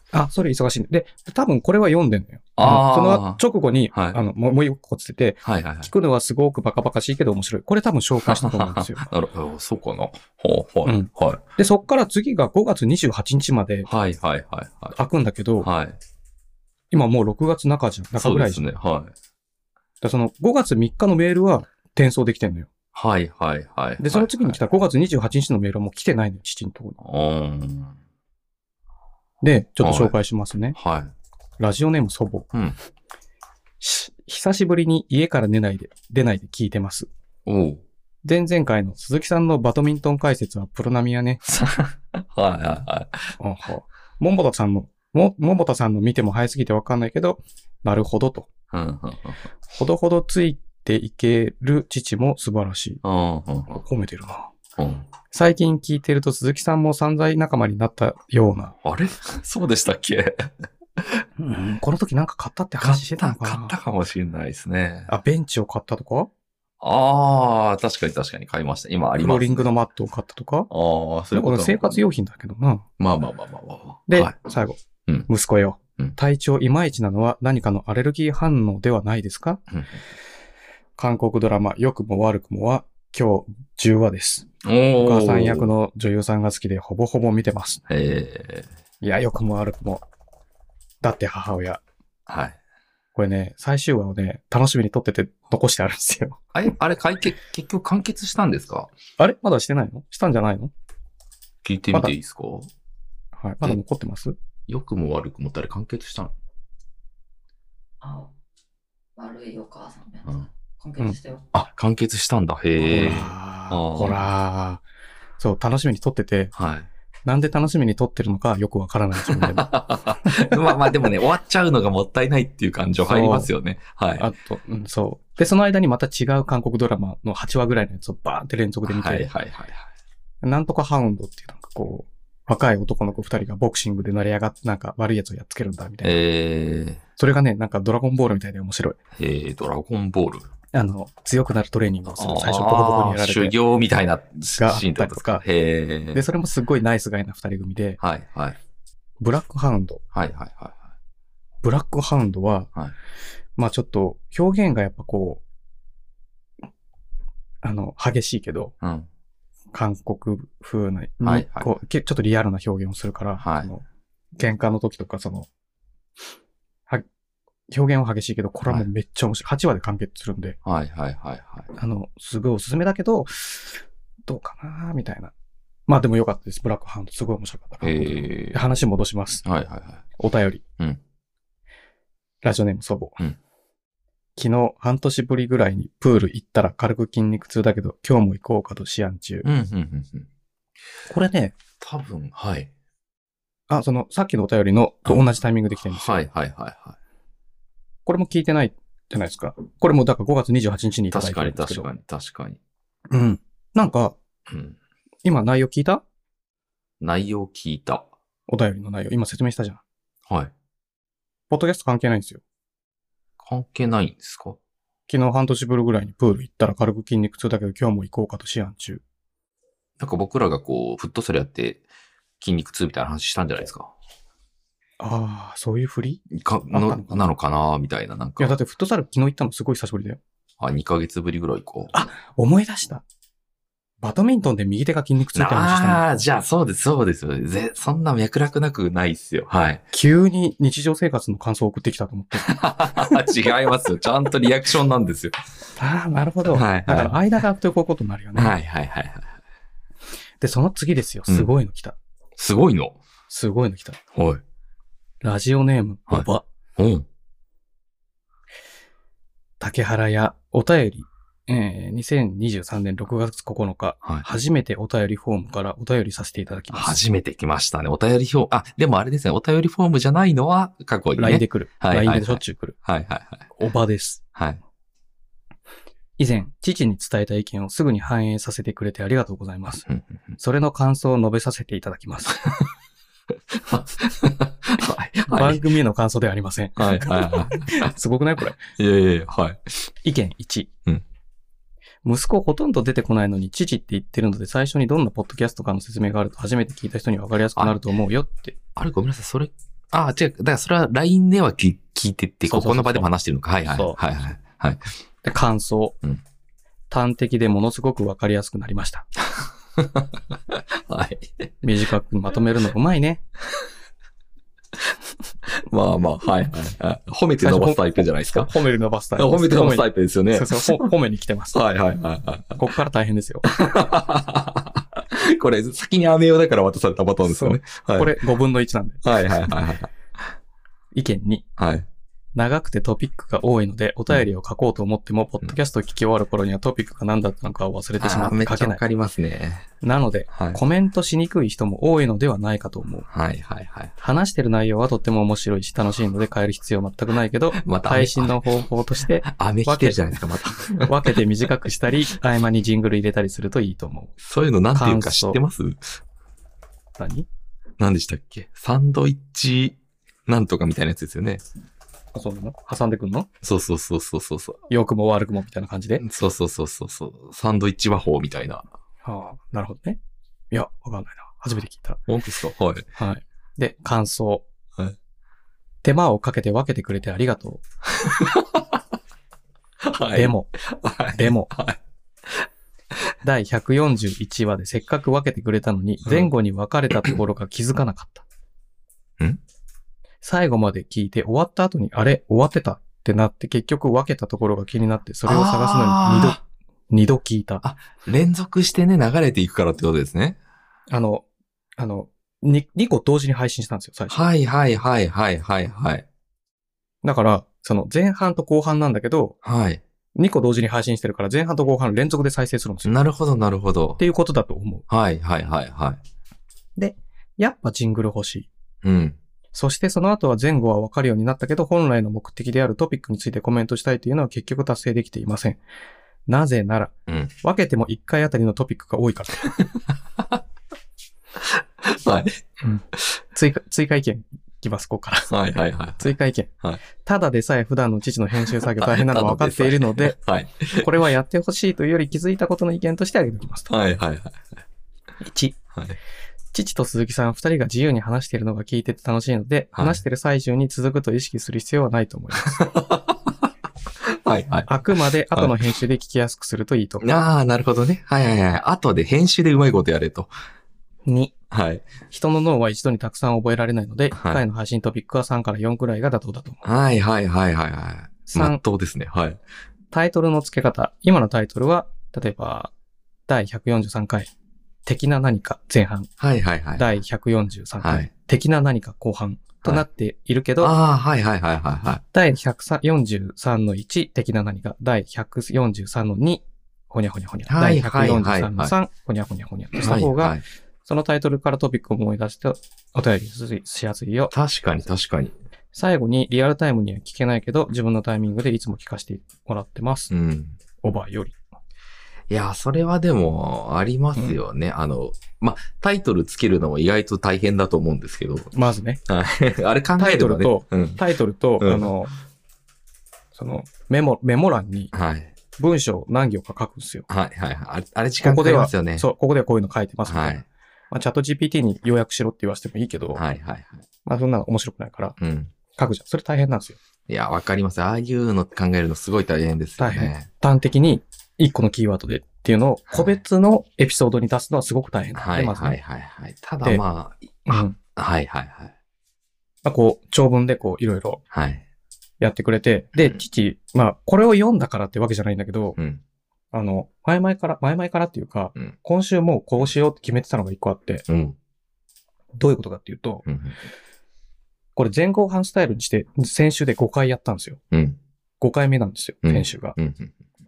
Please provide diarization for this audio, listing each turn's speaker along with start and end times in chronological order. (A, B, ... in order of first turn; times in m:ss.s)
0:00.1-0:09.1 A
0:02.6-0:04.2 B
0:05.4-0:05.9 B
0:08.2-0:11.4 B
0:10.8-0:13.9 A
0:13.9-0:15.0 B
0:15.0-0:15.7 A
0:15.6-0:16.0 B
0:16.9-0:18.6 A
0:18.2-0:19.1 B
0:20.0-0:22.7 A
0:22.9-0:24.6 B
0:24.0-0:27.0 A
0:27.0-0:28.0 B
0:29.4-0:30.8 A
0:29.8-0:30.2 B
0:30.8-0:31.1 B
0:31.6-0:32.5 A
0:33.8-0:37.1 A
0:37.5-0:37.8 B
0:38.2-0:41.4 A
0:41.4-0:43.3 B
0:43.4-0:48.5 A
0:48.7-0:49.5 B
0:49.7-0:53.0 A
0:53.0-0:53.8 B
0:53.8-0:54.5 A
0:54.8-0:55.1 B
0:55.3-0:58.8 A
0:58.8-1:01.2 B
1:01.4-1:03.8 A
1:02.8-1:05.1 B
1:05.1-1:06.3 A
1:06.8-1:09.7 B
1:09.2-1:10.7 A
1:10.7-1:12.0 B
1:11.3-1:12.9 A
1:13.0-1:14.3 B
1:14.1-1:19.6 A
1:19.7-1:20.0 B
1:21.0-1:24.5 A
1:24.6-1:25.7 B
1:25.0-1:27.8 A
1:27.9-1:28.7 B
1:29.0-1:30.0 A
1:31.0-1:31.8 A
1:32.3-1:32.6 B
1:33.2-1:36.4 A
1:36.6-1:38.9 B
1:39.2-1:40.7 A
1:41.6-1:42.7 B
1:43.4-1:44.4 A
1:44.7-1:46.3 B
1:48.0-1:48.3 C
1:49.2-1:51.5 C
1:51.5-1:54.3 B
1:52.8-1:54.8 A
1:55.4-1:56.5 A
1:56.5-1:56.9 B
1:57.3-1:59.7 A
1:59.3-2:04.3 B
2:00.2-2:00.6 A
2:03.0-2:03.5 A
2:04.2-2:09.3 A
2:08.9-2:09.9 B
2:10.4-2:16.2 A
2:16.0-2:17.0 B
2:17.2-2:19.0 A
2:19.2-2:20.5 B
2:20.7-2:23.6 A
2:22.1-2:26.2 B
2:24.6-2:25.4 A
2:26.1-2:28.0 A
2:28.0-2:28.6 B
2:29.2-2:30.0 A
2:30.1-2:30.9 B
2:31.6-2:32.7 A
2:33.6-2:35.4 A
2:37.6-2:38.7 A
2:38.8-2:39.1 B
2:39.7-2:43.8 A
2:41.2-2:41.7 B
2:43.4-2:43.7 B
2:44.4-2:45.5 A
2:47.7-2:50.6 A
2:50.6-2:51.7 B
2:51.8-2:55.3 A
2:55.9-2:59.4 A
2:57.8-2:58.6 B
2:59.4-3:00.0 B
3:00.2-3:00.6 A
3:02.4-3:03.2 A
3:04.4-3:09.5 A
3:09.4-3:10.3 B
3:11.1-3:11.6 A
3:11.8-3:12.7 B
3:13.7-3:16.2 A
3:15.9-3:17.0 B
3:18.1-3:21.9 A
3:21.1-3:22.6 B
3:23.1-3:24.2 A
3:24.5-3:24.8 B
3:25.2-3:26.0 A
3:27.0-3:28.1 B
3:28.5-3:29.8 A
3:30.3-3:30.5 B
3:31.5-3:32.4 A
3:33.4-3:34.6 B
3:35.1-3:39.0 A
3:40.0-3:41.8 B
3:42.4-3:43.9 B
3:45.0-3:47.3 A
3:46.3-3:48.6 B
3:48.4-3:50.2 A
3:50.6-3:52.0 B
3:51.9-3:53.0 A
3:54.0-3:56.0 A
3:55.4-3:59.8 B
3:59.9-4:03.4 A
4:02.4-4:05.4 B
4:05.8-4:08.6 A
4:06.5-4:07.2 B
4:08.4-4:09.4 B
4:10.4-4:12.0 A
4:12.4-4:13.0 B
4:13.3-4:14.0 A
4:14.1-4:14.4 B
4:15.2-4:16.4 A
4:16.1-4:17.1 B
4:19.6-4:27.0 A
4:26.7-4:33.5 B
4:31.2-4:32.8 A
4:33.5-4:34.2 A
4:36.2-4:39.9 A
4:39.9-4:40.2 B
4:40.4-4:42.5 A
4:43.5-4:45.6 B
4:45.3-4:48.7 A
4:46.8-4:47.9 B
4:48.8-4:49.7 B
4:50.0-4:50.7 A
4:52.0-4:58.6 A
4:58.8-5:04.8 B
5:02.5-5:03.1 A
5:03.7-5:04.0 A
5:05.2-5:06.0 A
5:06.9-5:09.1 A
5:09.2-5:11.5 B
5:11.6-5:13.2 A
5:15.5-5:18.5 B
5:17.4-5:21.6 A
5:19.2-5:20.9 B
5:21.5-5:22.6 B
5:22.6-5:23.5 A
5:23.5-5:28.2 B
5:27.2-5:29.0 A
5:29.0-5:29.9 B
5:30.9-5:31.4 A
5:31.6-5:31.9 B
5:32.4-5:38.8 A
5:38.0-5:39.7 B
5:39.8-5:43.1 A
5:40.3-5:40.6 B
5:43.1-5:43.9 B
5:44.0-5:50.0 A
5:47.6-5:48.4 B
5:49.2-5:51.2 B
5:50.8-5:54.1 A
5:54.2-5:56.0 B
5:54.7-5:55.4 A
5:57.0-5:57.3 A
5:57.8-6:01.4 B
6:02.1-6:03.3 A
6:03.4-6:04.6 B
6:04.7-6:06.0 A
6:06.0-6:08.7 B
6:09.0-6:10.0 A
6:10.5-6:12.0 A
6:12.1-6:12.9 B
6:13.0-6:14.4 A
6:15.8-6:17.6 A
6:18.0-6:18.8 B
6:19.8-6:22.5 B
6:20.1-6:20.5 A
6:21.2-6:21.5 A
6:23.2-6:28.2 A
6:30.2-6:37.6 A
6:35.3-6:36.4 B
6:37.6-6:40.4 B
6:40.9-6:41.2 A
6:41.8-6:44.3 A
6:44.1-6:46.0 B
6:47.0-6:49.4 A
6:49.4-6:49.8 B
6:50.2-6:53.0 A
6:52.8-6:54.0 B
6:54.0-6:54.8 A
6:54.9-6:56.0 B
6:56.8-6:58.5 A
6:58.8-6:59.2 B
6:59.5-7:05.6 A
7:06.3-7:09.4 A
7:09.4-7:10.4 B
7:11.4-7:12.4 B
7:12.6-7:15.4 A
7:15.3-7:16.8 B
7:16.0-7:20.2 A
7:18.5-7:20.9 B
7:20.8-7:23.7 A
7:23.7-7:24.4 B
7:25.2-7:25.6 A
7:26.5-7:32.6 A
7:29.8-7:30.0 B
7:32.4-7:33.5 B
7:34.0-7:34.7 B
7:34.7-7:37.1 A
7:35.3-7:35.6 B
7:37.0-7:40.3 B
7:41.1-7:41.3 A
7:41.5-7:41.9 B
7:42.1-7:46.6 A
7:44.1-7:44.4 B
7:46.6-7:49.4 B
7:48.3-7:48.6 A
7:49.9-7:52.7 A
7:53.3-7:54.3 A
7:54.9-7:56.1 A
7:56.2-7:56.9 B
7:56.8-8:00.8 A
7:57.8-7:58.1 B
8:00.6-8:02.0 B
8:02.1-8:14.3 A
8:07.5-8:08.7 B
8:09.8-8:10.4 B
8:14.3-8:15.4 B
8:15.7-8:20.1 A
8:20.1-8:20.6 B
8:20.8-8:21.4 A
8:22.3-8:28.5 B
8:28.5-8:29.0 A
8:29.1-8:31.0 B
8:30.0-8:32.1 A
8:31.6-8:31.9 B
8:33.4-8:34.9 A
8:34.9-8:35.3 B
8:35.6-8:37.1 A
8:37.1-8:39.1 B
8:38.2-8:43.2 A
8:40.1-8:40.4 B
8:43.2-8:43.8 B
8:44.0-8:45.2 A
8:45.2-8:45.5 B
8:45.7-8:46.8 A
8:47.1-8:50.3 B
8:49.8-8:55.8 A
8:55.2-8:58.7 B
8:57.5-8:57.8 A
8:59.6-9:01.2 A
9:01.3-9:01.6 B
9:02.2-9:05.8 A
9:03.0-9:03.2 B
9:06.5-9:11.1 A
9:11.1-9:11.4 B
9:12.4-9:13.2 A
9:13.2-9:13.6 B
9:14.8-9:17.6 A
9:17.7-9:18.0 B
9:18.4-9:19.8 A
9:19.2-9:20.2 B